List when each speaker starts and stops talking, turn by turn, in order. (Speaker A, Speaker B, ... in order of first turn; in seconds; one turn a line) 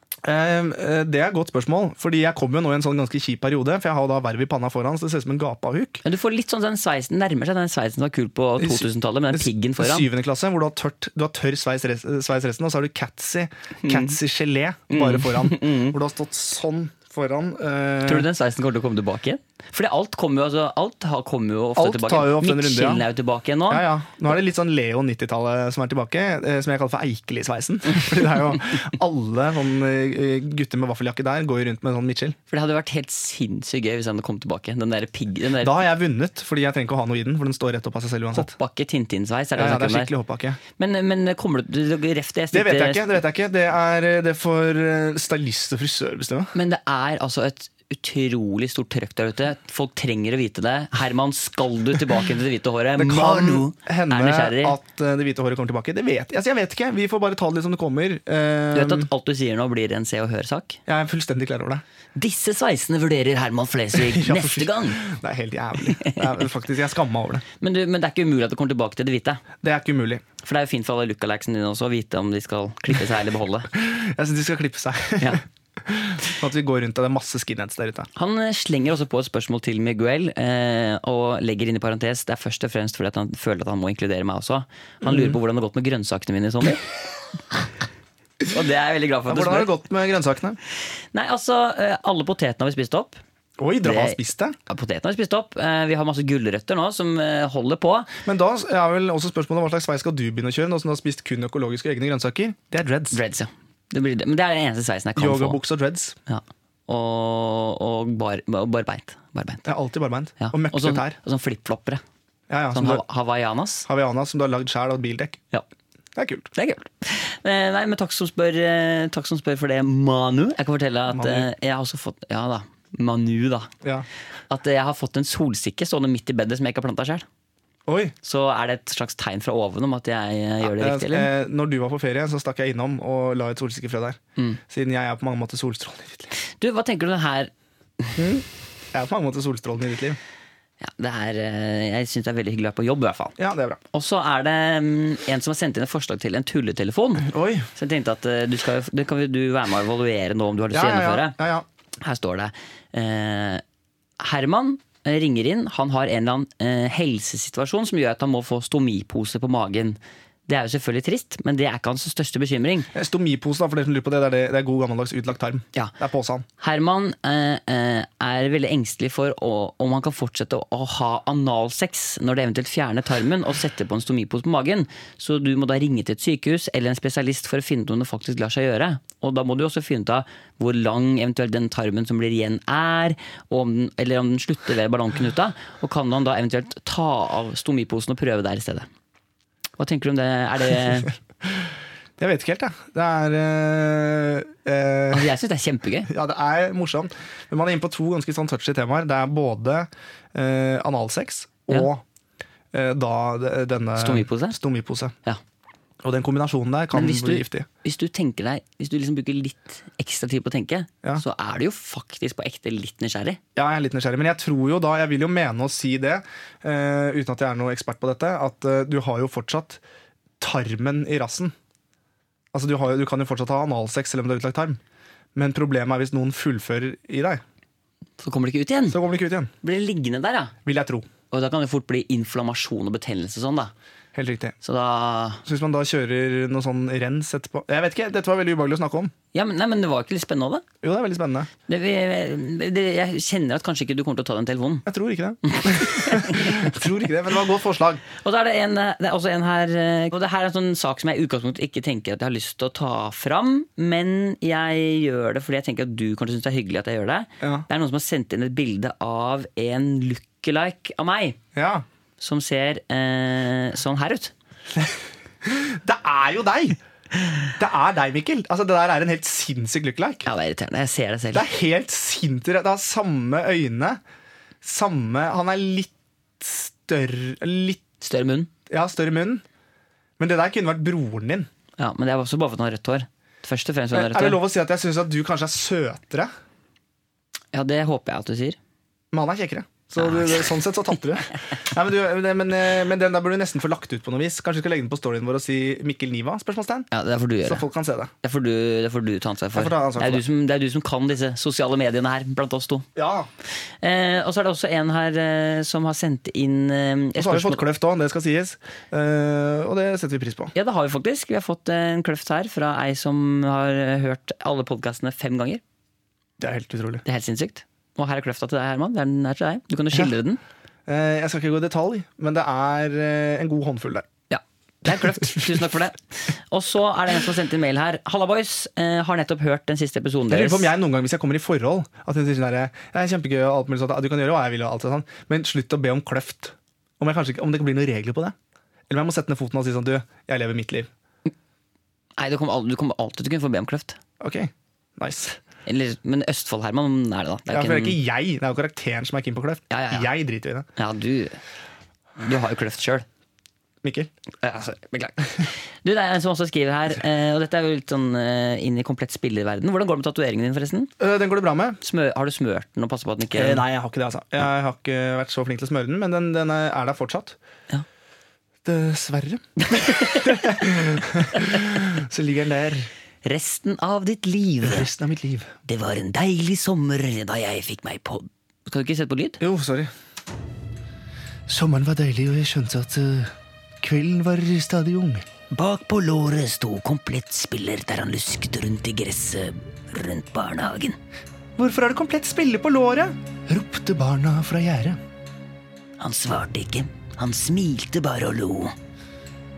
Speaker A: 0.2-6.0
Speaker B: 6.0-10.1
Speaker A: 8.6-18.3
Speaker B: 13.8-14.2
Speaker B: 14.9-15.9
Speaker B: 18.0-23.9
Speaker A: 21.8-23.1
Speaker A: 23.7-32.4
Speaker B: 32.5-35.8
Speaker A: 35.6-38.5
Speaker B: 38.3-40.1
Speaker A: 39.5-40.6
Speaker B: 40.8-43.0
Speaker A: 42.5-46.5
Speaker B: 46.5-54.8
Speaker A: 53.0-59.1
Speaker B: 58.7-60.8
Speaker A: 60.9-61.8
Speaker B: 62.1-65.0
Speaker A: 63.9-67.4
Speaker B: 65.9-66.2
Speaker B: 67.6-69.4
Speaker A: 69.6-70.2
Speaker B: 70.4-73.7
Speaker A: 73.8-78.1
Speaker B: 78.1-86.8
Speaker A: 85.0-85.3
Speaker B: 88.5-89.7
Speaker A: 89.3-90.6
Speaker B: 91.1-93.2
Speaker A: 93.6-94.5
Speaker B: 93.8-98.1
Speaker A: 98.2-103.2
Speaker B: 103.1-105.6
Speaker A: 105.2-106.2
Speaker B: 106.3-109.6
Speaker A: 109.6-111.2
Speaker B: 110.4-112.0
Speaker A: 112.5-113.0
Speaker B: 112.7-113.9
Speaker A: 113.9-115.4
Speaker A: 116.2-116.5
Speaker B: 116.5-123.7
Speaker A: 121.1-121.5
Speaker B: 124.5-127.2
Speaker A: 127.9-128.1
Speaker B: 128.2-131.3
Speaker A: 130.6-136.3
Speaker B: 136.6-138.2
Speaker A: 138.2-140.2
Speaker B: 140.8-143.3
Speaker A: 143.4-143.8
Speaker B: 143.9-151.3
Speaker A: 147.2-147.7
Speaker A: 150.7-151.6
Speaker B: 152.0-153.6
Speaker B: 154.2-162.9
Speaker A: 162.9-166.4
Speaker B: 166.6-188.9
Speaker B: 189.8-191.1
Speaker A: 192.2-195.3
Speaker B: 195.1-196.1
Speaker A: 196.1-202.0
Speaker A: 202.7-205.1
Speaker B: 204.0-204.6
Speaker A: 206.0-207.7
Speaker B: 206.9-213.4
Speaker A: 213.6-219.8
Speaker A: 220.4-221.5
Speaker A: 222.5-224.8
Speaker A: 225.3-227.4
Speaker B: 228.2-229.0
Speaker A: 228.9-229.5
Speaker B: 229.6-230.5
Speaker A: 230.7-231.1
Speaker B: 231.3-233.7
Speaker A: 234.1-234.5
Speaker B: 234.6-235.4
Speaker A: 235.4-239.1
Speaker B: 239.3-240.6
Speaker A: 240.8-241.5
Speaker B: 241.7-244.8
Speaker A: 244.8-248.0
Speaker B: 245.5-246.7
Speaker B: 248.2-261.4
Speaker A: 261.5-261.8
Speaker B: 262.2-264.3
Speaker A: 264.8-266.8
Speaker A: 267.6-270.3
Speaker B: 270.2-271.5
Speaker A: 271.3-274.0
Speaker A: 274.6-277.8
Speaker B: 278.0-278.5
Speaker A: 278.7-279.4
Speaker A: 280.2-281.5
Speaker B: 281.8-284.4
Speaker A: 283.9-286.3
Speaker B: 287.5-288.6
Speaker A: 289.1-296.9
Speaker B: 290.0-290.5
Speaker B: 296.9-297.6
Speaker A: 297.4-298.1
Speaker B: 298.2-302.9
Speaker A: 299.5-300.2
Speaker A: 302.9-303.3
Speaker B: 303.8-307.6
Speaker A: 307.2-310.5
Speaker B: 310.5-315.6
Speaker A: 316.4-317.0
Speaker B: 317.0-320.4
Speaker A: 320.9-324.1
Speaker B: 324.3-330.7
Speaker A: 330.3-338.3
Speaker A: 338.9-340.9
Speaker B: 342.2-344.0
Speaker A: 344.2-345.4
Speaker B: 345.6-348.0
Speaker A: 347.5-350.6
Speaker B: 349.7-350.1
Speaker B: 350.8-351.4
Speaker B: 352.2-353.1
Speaker A: 353.8-354.1
Speaker B: 354.4-360.9
Speaker A: 361.0-361.8
Speaker B: 361.8-363.6
Speaker A: 363.3-367.4
Speaker A: 368.6-372.9
Speaker B: 369.6-370.6
Speaker B: 371.3-371.6
Speaker B: 373.2-374.9
Speaker A: 374.6-375.5
Speaker B: 375.6-379.4
Speaker A: 379.4-379.9
Speaker A: 381.5-385.3
Speaker B: 385.5-391.0
Speaker A: 391.6-395.0
Speaker B: 396.0-398.7